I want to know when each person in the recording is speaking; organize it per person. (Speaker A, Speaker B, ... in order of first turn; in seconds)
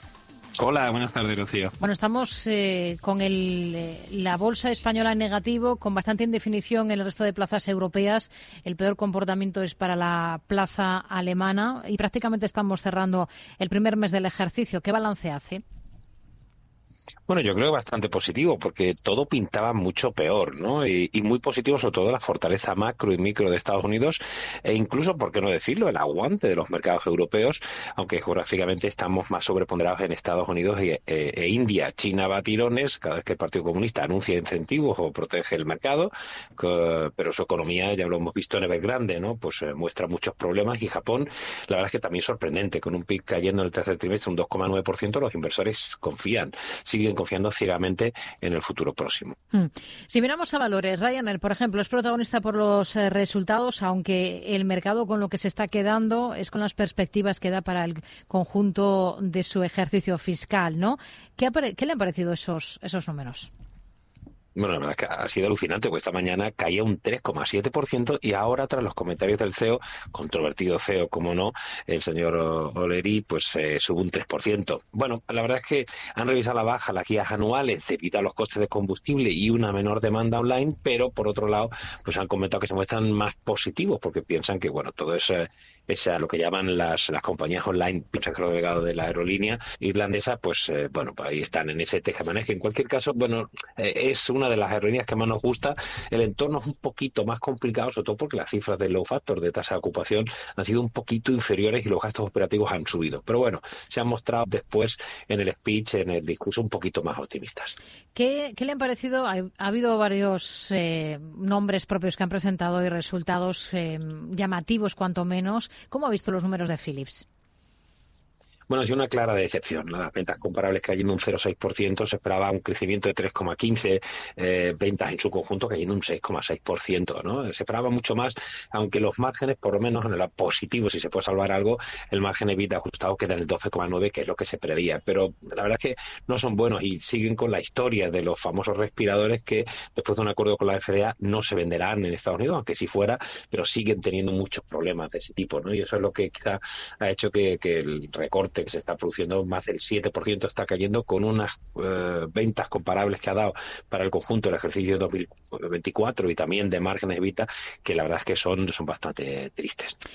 Speaker A: 0.6-1.7, 17.3-49.4, 64.5-107.7, 118.7-159.9
Speaker B: 1.8-15.6, 49.5-63.5, 108.1-117.2